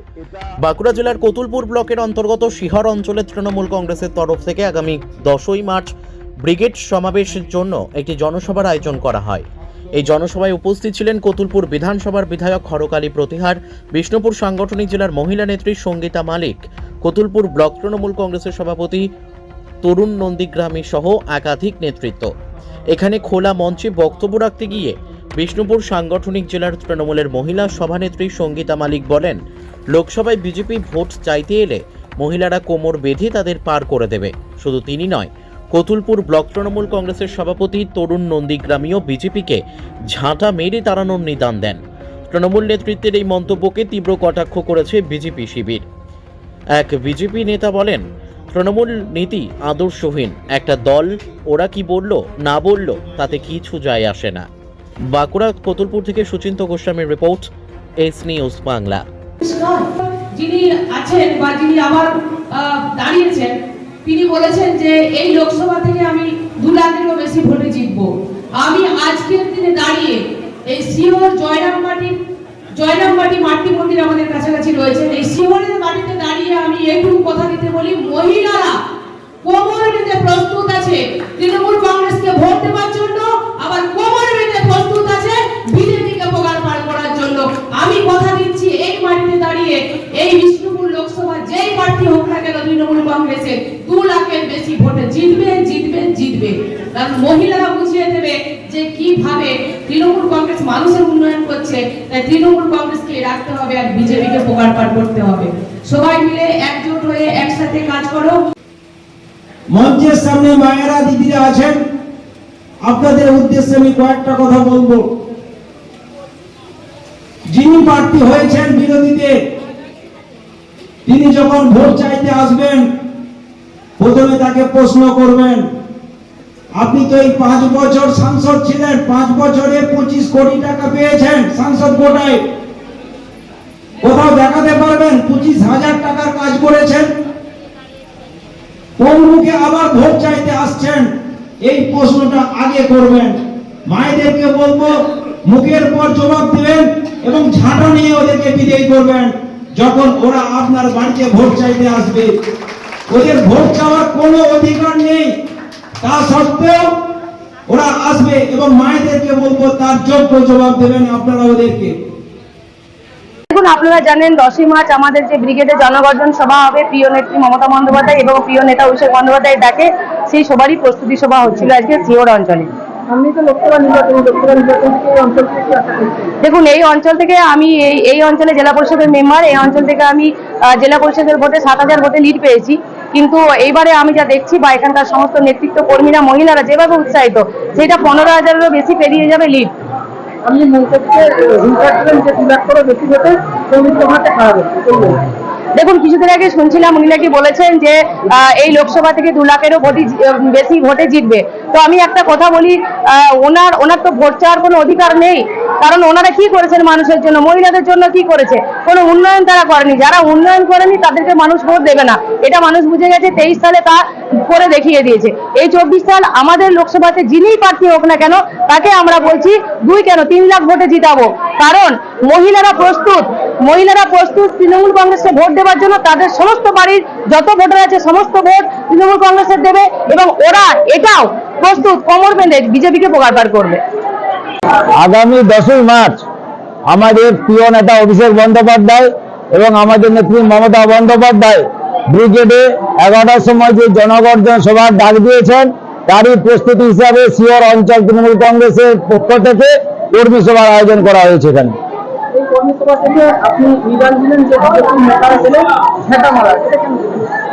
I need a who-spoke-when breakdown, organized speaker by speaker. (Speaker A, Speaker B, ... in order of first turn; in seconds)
Speaker A: 0.6-5.9, 6.4-19.1, 19.8-22.3, 22.9-29.4, 29.9-45.9, 46.8-54.5, 55.1-57.5, 58.0-59.0
Speaker B: 59.4-63.5, 64.0-68.1, 68.6-70.2, 70.7-72.2, 72.8-78.7, 79.4-108.4
Speaker C: 109.7-111.8, 112.8-115.0, 117.5-119.3, 121.0-122.9, 124.0-125.7, 126.8-132.4, 134.0-137.1, 139.0-152.3, 153.1-155.3, 156.0-156.9, 157.7-161.9
Speaker D: 163.5-172.7, 176.4-189.7, 195.8-233.8
Speaker E: 173.1-176.3, 190.4-195.2, 252.3-257.3
Speaker F: 234.9-236.2, 236.8-251.8